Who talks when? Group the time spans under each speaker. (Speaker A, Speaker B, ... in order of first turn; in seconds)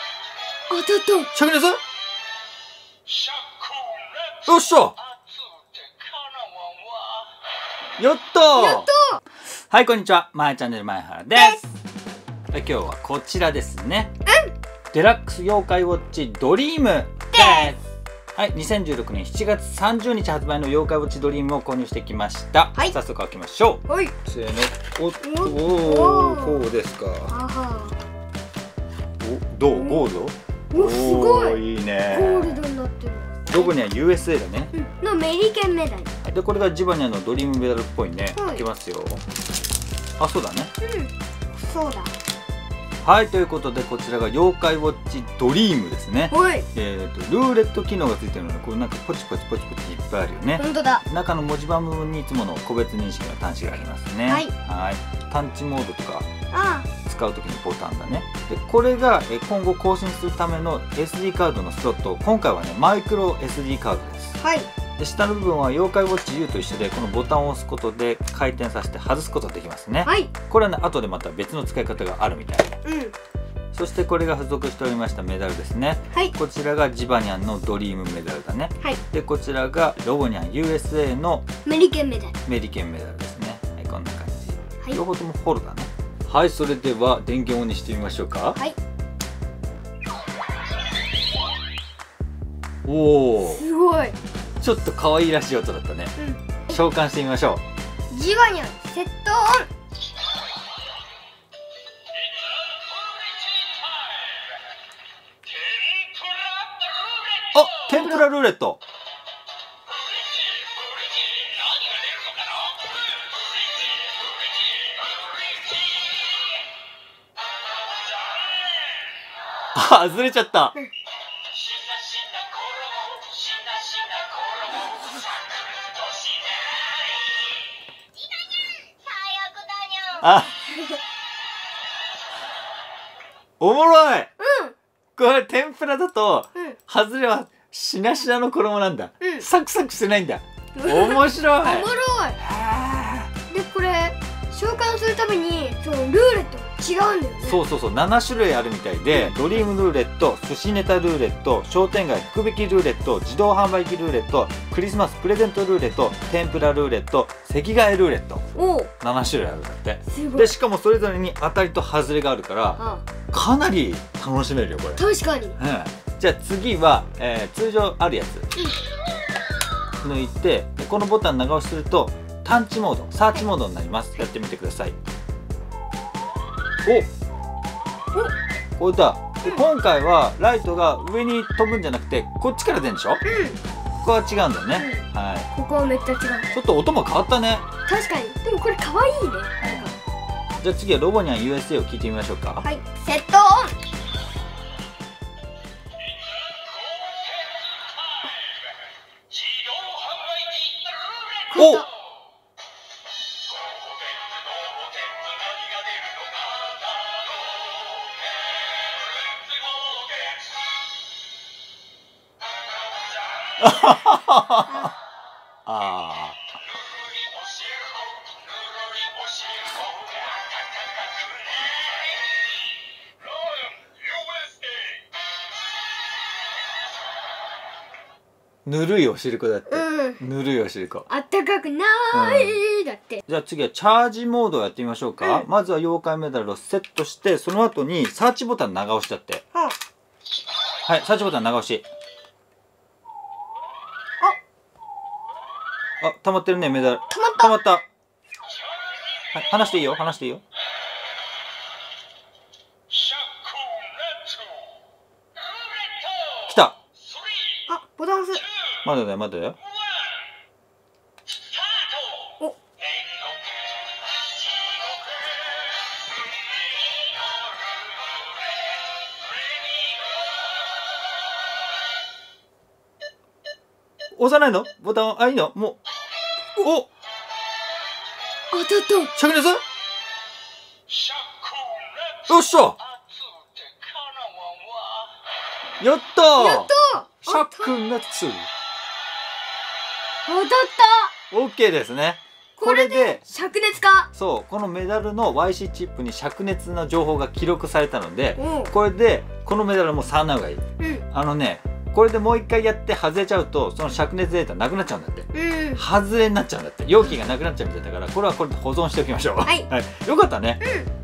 Speaker A: 0.7-1.3, 8.6-9.2, 11.3-11.6, 14.3-14.5, 17.3-17.7, 23.9-24.1, 25.2-26.7, 27.3-28.0, 29.7-30.1, 30.7-33.7, 34.7-36.1, 38.4-38.6, 40.8-42.1, 46.3-46.7, 50.6-51.0, 56.5-56.9, 64.4-64.7, 70.0-70.3, 72.8-73.1, 81.7-82.3, 93.4-94.2, 96.2-96.8, 98.1-99.7, 129.7-130.1, 134.4-134.7, 140.8-142.4, 143.5-147.6, 149.1-149.6, 158.6-158.9, 160.1-160.5, 162.8-163.0, 165.0-165.6, 183.2-183.6, 184.7-186.5, 187.9-189.9, 192.6-193.7, 201.5-201.8, 229.7-230.2, 231.1-233.2, 235.2-235.4, 247.1-247.5, 257.7-258.5, 278.5-279.1, 286.4-287.7, 290.3-291.1, 292.6-294.1, 298.4-298.7, 300.8-301.1, 305.3-305.8, 310.6-310.9
Speaker B: 1.3-1.8, 4.5-5.0, 8.0-8.9, 9.7-11.7, 12.5-14.1, 14.9-17.8, 18.4-27.3, 29.2-32.6, 33.5-34.7, 36.2-39.2, 40.2-40.7, 43.0-56.3, 57.0-64.4, 65.0-72.8, 73.7-81.5, 82.5-88.6, 92.8-93.6, 94.6-96.1, 96.7-97.6, 107.5-108.8, 119.7-120.8, 130.2-130.6, 133.6-134.3, 135.2-143.3, 147.4-158.4, 159.0-165.0, 165.6-168.5, 170.0-174.9, 178.8-183.2, 184.0-185.5, 186.5-187.7, 189.6-190.0, 190.6-192.7, 201.6-201.8, 213.6-214.9, 215.7-216.4, 228.6-231.1, 232.1-232.6, 233.3-239.4, 240.8-241.9, 246.0-247.8, 249.3-250.4, 256.5-256.8, 258.8-259.6, 274.1-275.8, 276.6-276.9, 279.1-279.6, 282.3-282.8, 285.8-286.7, 287.2-288.5, 291.3-293.2, 294.1-310.6